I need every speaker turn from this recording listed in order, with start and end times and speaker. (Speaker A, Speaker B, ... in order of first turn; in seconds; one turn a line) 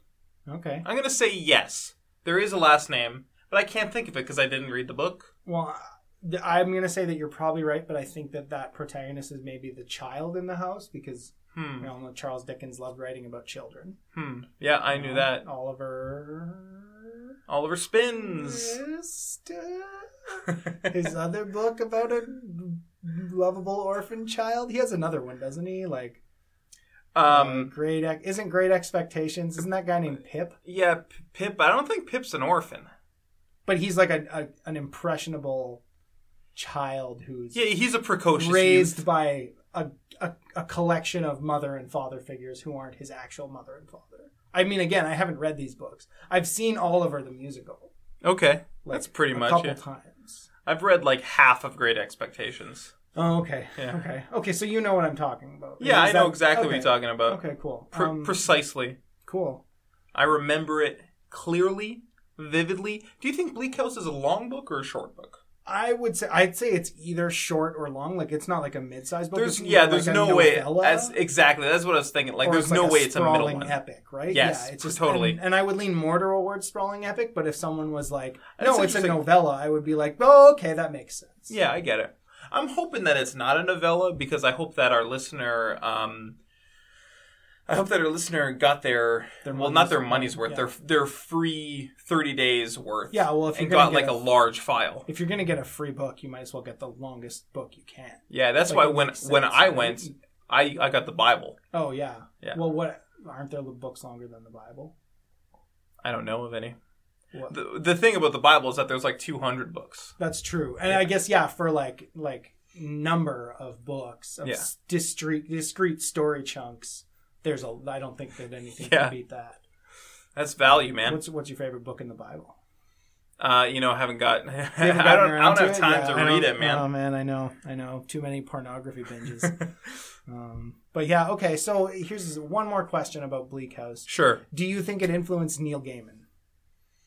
Speaker A: 0.5-0.9
Speaker B: 0.8-5.3
Speaker A: 5.5-14.0
Speaker B: 11.5-11.9
Speaker B: 14.2-15.4
Speaker A: 14.9-17.2
Speaker B: 17.5-18.8
Speaker A: 18.1-26.2
Speaker B: 27.1-27.7
Speaker A: 27.3-30.6
Speaker B: 30.6-32.9
Speaker A: 33.7-35.8
Speaker A: 36.5-37.6
Speaker B: 37.5-39.0
Speaker A: 38.4-47.9
Speaker B: 48.2-49.8
Speaker A: 48.8-50.5
Speaker B: 50.7-52.9
Speaker A: 53.1-58.4
Speaker B: 55.8-57.4
Speaker B: 57.9-59.0
Speaker A: 59.3-59.6
Speaker B: 60.1-65.4
Speaker A: 65.7-71.2
Speaker B: 69.3-73.8
Speaker A: 72.4-81.5
Speaker B: 74.3-75.4
Speaker B: 78.6-79.3
Speaker B: 81.5-86.4
Speaker B: 87.7-95.1
Speaker A: 89.5-90.7
Speaker A: 93.1-94.2
Speaker A: 95.1-100.1
Speaker B: 98.3-101.6
Speaker A: 101.7-104.9
Speaker B: 106.0-106.8
Speaker B: 107.5-110.1
Speaker A: 110.2-119.6
Speaker B: 118.8-119.1
Speaker B: 120.4-121.2
Speaker A: 121.0-122.6
Speaker B: 123.4-126.8
Speaker A: 124.8-129.6
Speaker A: 130.3-136.3
Speaker B: 134.1-134.4